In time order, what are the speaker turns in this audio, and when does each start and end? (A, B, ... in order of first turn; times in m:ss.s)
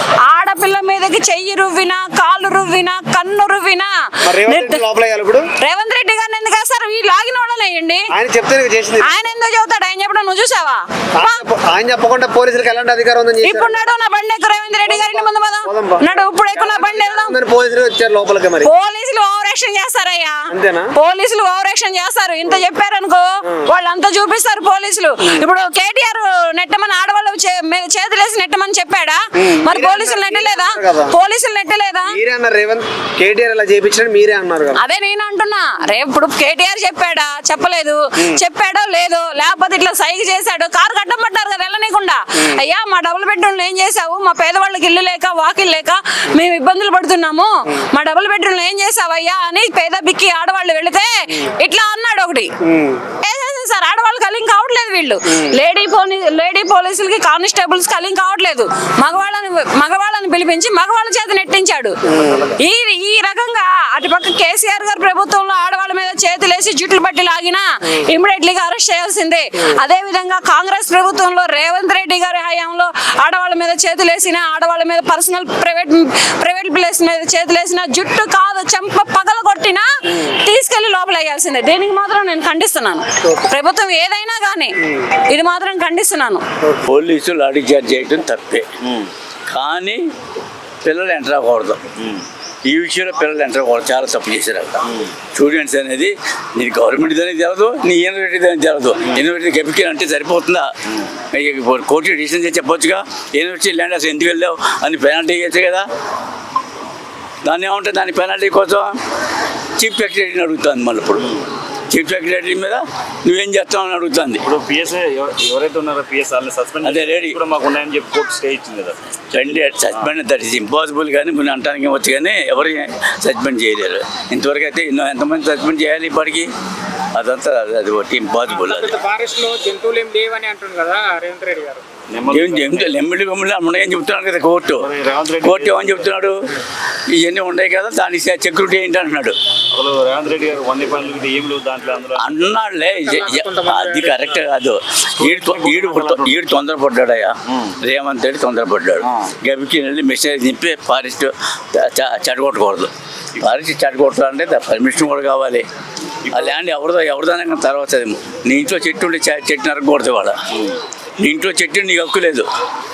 0:00.3-0:03.9 A
0:04.2-0:05.4 B
0:04.4-0:04.8 A
0:05.6-0:08.0 A
0:08.1-0:09.3 B
0:09.0-0:11.4 A
0:11.1-0:13.8 B
0:13.4-0:17.3 A
0:14.8-0:18.7 B
0:18.6-0:20.4 A
0:20.5-0:20.9 B
0:20.9-0:32.2 A
0:29.4-0:31.1 B
0:32.1-0:34.8 B
0:34.7-0:52.5 A
0:52.6-0:53.0 B
0:53.2-1:02.0 A
1:02.1-1:02.5 B
1:02.6-1:24.7 A
1:25.3-1:26.4 A
1:26.9-1:28.6 C
1:28.8-1:29.1 D
1:29.5-1:30.0 C
1:30.8-1:31.9 C
1:32.0-1:32.2 D
1:32.6-1:40.7 C
1:34.8-1:35.1 D
1:41.3-1:45.8 C
1:47.4-1:49.0 C
1:49.8-1:51.3 C
1:51.9-1:54.4 C
1:54.4-1:59.0 D
1:56.8-1:57.4 C
1:59.3-2:06.5 C
2:07.1-2:09.0 C
2:08.5-2:11.8 E
2:12.1-2:13.0 D
2:12.3-2:14.9 C
2:14.8-2:16.0 D
2:15.4-2:16.4 C
2:17.1-2:19.3 C
2:19.7-2:22.5 D
2:22.2-2:35.6 C
2:22.9-2:24.4 E
2:25.2-2:26.4 D
2:27.5-2:27.8 D
2:29.0-2:29.3 D
2:36.2-2:36.6 D
2:36.3-2:40.3 C
2:41.2-2:42.5 C